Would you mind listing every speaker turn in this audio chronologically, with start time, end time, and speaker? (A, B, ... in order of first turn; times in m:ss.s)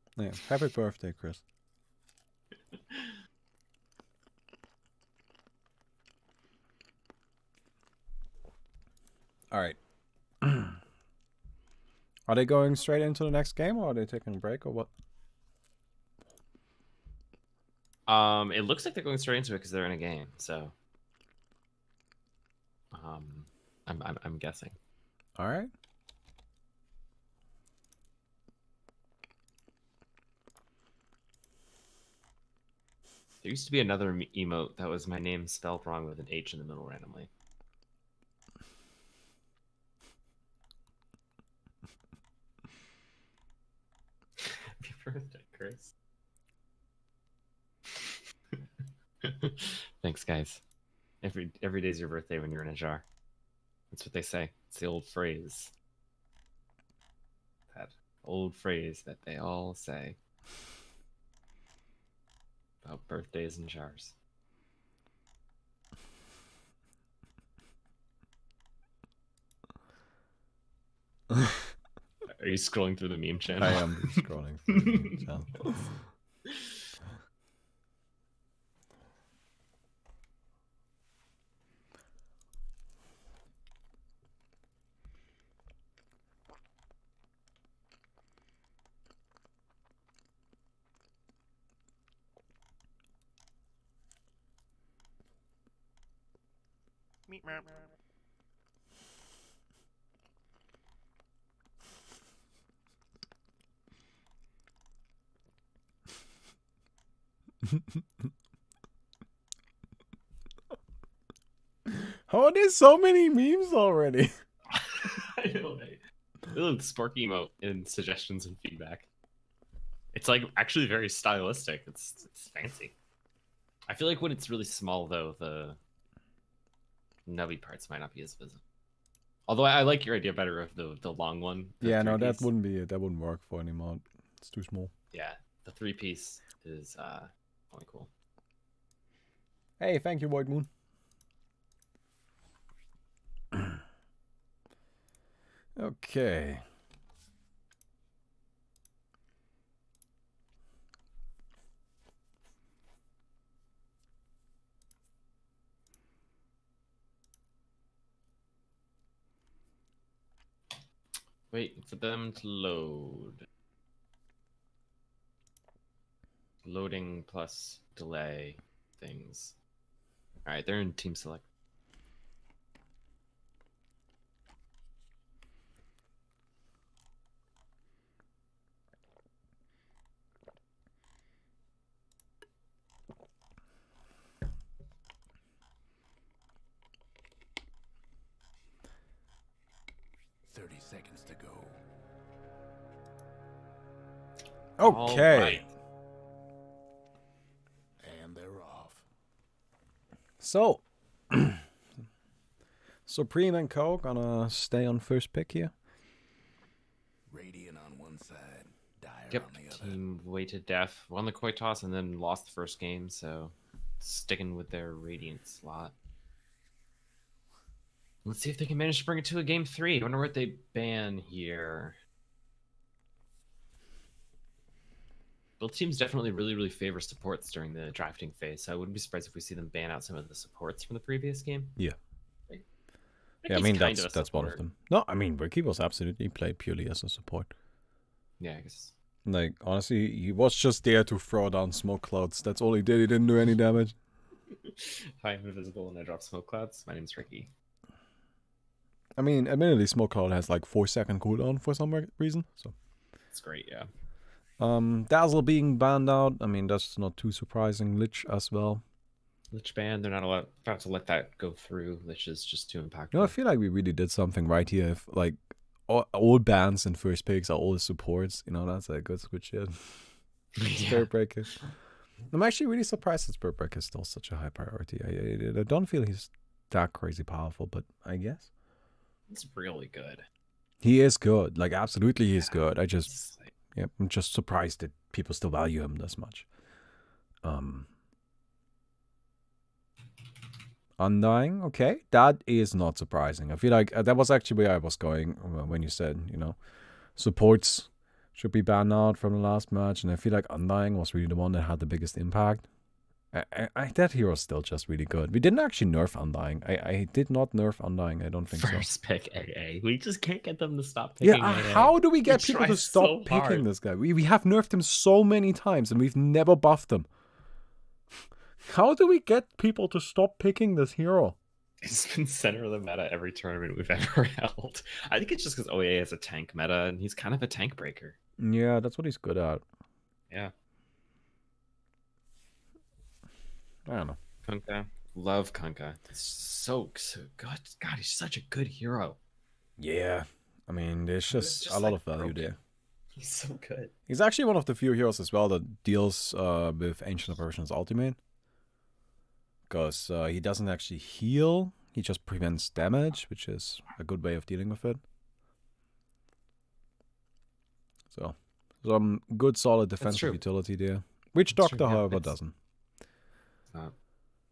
0:00.2-0:01.4 A
0:02.7-0:03.2 B
0:09.5-0:09.8 A
0:10.4-0:10.8 A
0:12.3-0:14.9 A
0:18.1-0:20.7 B
0:22.9-0:24.8 B
0:25.4-0:25.7 A
0:33.4-0:37.3 B
0:44.4-0:45.9 B
0:47.9-0:48.6 B
0:49.2-0:50.6 B
0:51.2-0:53.0 B
0:53.9-0:55.7 B
0:57.7-1:00.2 B
1:02.8-1:04.2 B
1:12.3-1:15.2 B
1:13.6-1:15.7 A
1:16.5-1:16.7 B
1:51.9-1:54.4 A
1:54.7-1:59.1 B
2:00.1-2:03.0 B
2:03.9-2:05.8 B
2:07.3-2:08.6 B
2:09.5-2:12.5 B
2:11.8-2:14.9 A
2:15.1-2:18.1 B
2:19.8-2:20.7 A
2:23.5-2:23.8 A
2:25.8-2:26.6 A
2:41.5-2:43.4 B
2:46.6-2:49.6 B
2:50.5-2:51.4 B
3:10.5-3:11.8 C
3:14.8-3:15.6 A
3:14.8-3:15.7 B
3:18.0-3:19.0 C
3:20.4-3:21.6 A
3:23.1-3:25.7 A
3:27.3-3:30.0 C
3:29.3-3:35.9 B
3:38.2-3:42.0 B
3:45.6-3:51.7 B
3:53.4-3:54.6 B
3:53.5-3:57.5 A
3:58.4-3:58.9 B
3:59.3-4:04.0 A
4:04.6-4:07.5 B
4:09.2-4:12.7 A
4:13.3-4:13.9 B
4:14.6-4:18.8 A
4:19.5-4:23.3 B
4:23.1-4:30.0 A
4:30.6-4:31.1 B
4:30.8-4:31.5 A
4:32.3-4:38.5 A
4:39.3-4:40.2 B
4:40.8-4:43.1 A
4:42.4-4:43.5 B
4:43.8-4:46.5 A
4:47.4-4:47.9 A
4:51.0-4:56.6 A
4:57.2-5:02.7 A
5:03.3-5:08.9 A
5:08.6-5:13.7 B
5:11.2-5:17.1 A
5:18.7-5:21.4 A
5:21.8-5:28.2 B
5:28.4-5:29.6 A
5:33.9-5:34.2 A
5:34.5-5:39.2 B
5:39.8-5:42.6 A
5:41.3-5:42.5 B
5:43.2-5:43.9 B
5:44.1-5:48.2 A
5:49.7-5:55.0 A
5:58.1-6:02.5 A
6:00.0-6:00.4 B
6:01.5-6:02.3 B